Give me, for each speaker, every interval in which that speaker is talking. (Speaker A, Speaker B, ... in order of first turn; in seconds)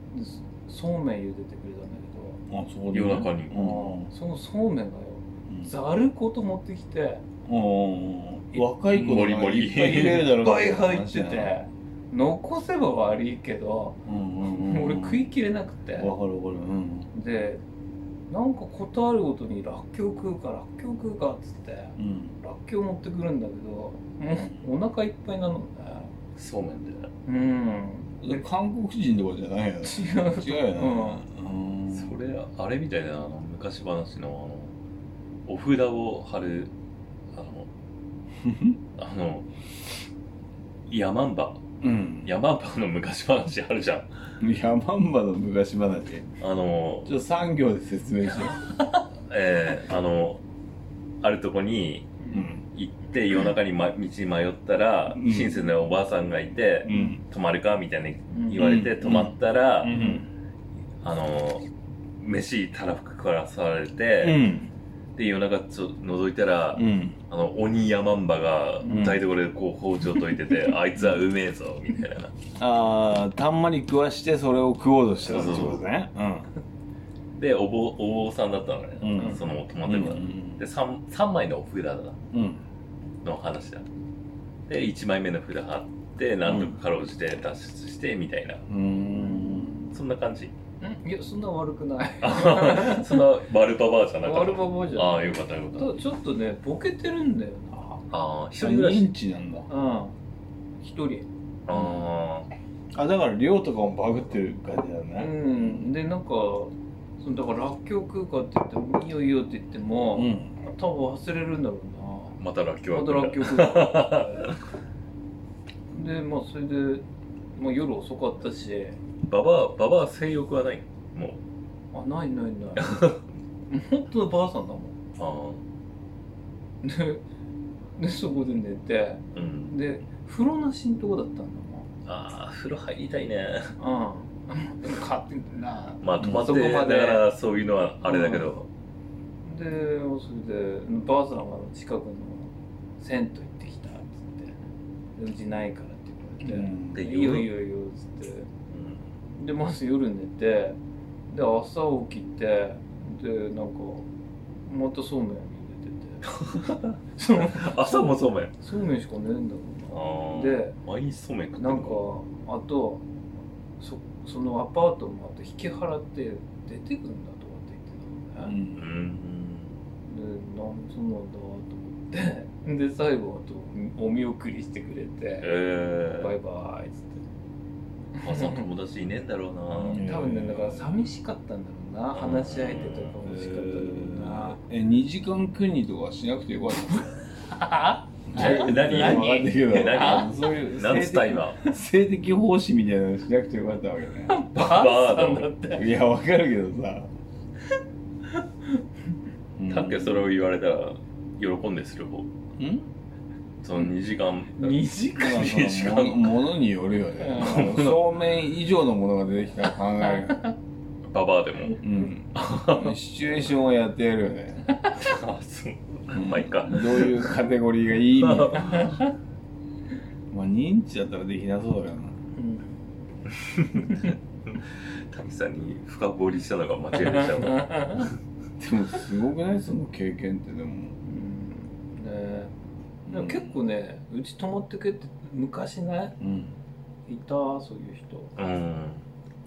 Speaker A: 0.1-2.4, 3.5-7.2, 10.3-16.1, 17.1-17.6, 18.3-26.1, 27.3-28.4, 29.8-31.2, 58.3-58.8, 59.9-60.3, 68.8-69.2, 89.2-89.9, 90.8-93.2, 94.2-98.0, 99.7-100.2, 100.8-101.3, 105.2-114.6, 115.9-119.0, 121.9-123.1, 123.7-125.0, 126.8-127.2, 128.0-131.9, 133.8-137.3, 138.0-138.5, 139.4-144.6, 145.2-148.5, 149.4-154.1, 154.7-156.3, 157.2-160.8, 161.6-163.1, 163.8-168.6, 170.1-175.5, 176.1-177.2, 178.2-178.7, 179.9-184.6, 187.5-190.5, 194.3-195.9, 204.6-205.6, 207.2-207.7, 210.0-210.5, 214.7-215.0, 218.7-219.1, 222.3-222.8, 227.0-228.1, 231.0-232.5, 233.1-236.2, 237.1-238.3
Speaker B: 2.5-4.1, 5.5-5.7, 7.5-11.5, 14.1-15.2, 16.0-17.1, 22.0-22.4, 24.4-24.6, 28.2-32.2, 38.4-38.8, 41.8-42.3, 44.4-46.3, 47.0-48.7, 52.3-52.6, 55.1-55.7, 56.8-57.2, 58.5-60.3, 64.2-64.7, 66.8-67.2, 68.9-69.2, 71.0-71.2, 72.6-76.5, 79.0-80.6, 82.3-82.6, 86.5-86.8, 88.7-89.8, 98.6-99.7, 101.7-102.0, 102.9-105.9, 110.2-110.5, 136.2-136.6, 146.4-147.0, 168.4-168.8, 179.8-180.9, 183.3-187.2, 188.3-194.3, 195.7-197.1, 199.6-200.3, 202.6-202.9, 205.2-210.5, 211.8-214.7, 216.1-219.0, 220.3-222.2, 228.6-231.0, 233.1-233.6, 236.2-236.6
Speaker C: 2.9-3.8, 8.9-10.3, 26.4-27.1, 31.9-34.8, 35.5-36.7, 37.3-37.7, 39.0-39.5, 40.9-41.6, 42.2-44.1, 46.4-47.1, 49.3-50.4, 51.2-60.0, 61.0-61.7, 62.2-64.4, 65.2-72.3, 75.3-75.8, 77.3-82.2, 83.2-83.9, 84.7-88.7, 89.9-90.5, 92.2-96.0, 98.1-99.1, 101.7-102.5, 112.4-114.6, 119.3-121.4, 122.8-123.2, 125.2-125.7, 129.3-129.8, 132.1-133.8, 136.0-138.7, 146.9-147.5, 148.7-149.1, 156.3-158.5, 159.9-162.0, 168.8-169.8, 175.4-176.3, 178.2-180.1, 182.1-183.2, 188.3-191.6, 194.5-195.5, 199.7-202.3, 203.6-206.5, 207.3-208.0, 211.1-212.9, 215.0-217.4, 218.1-219.0, 223.3-228.1, 238.4-239.1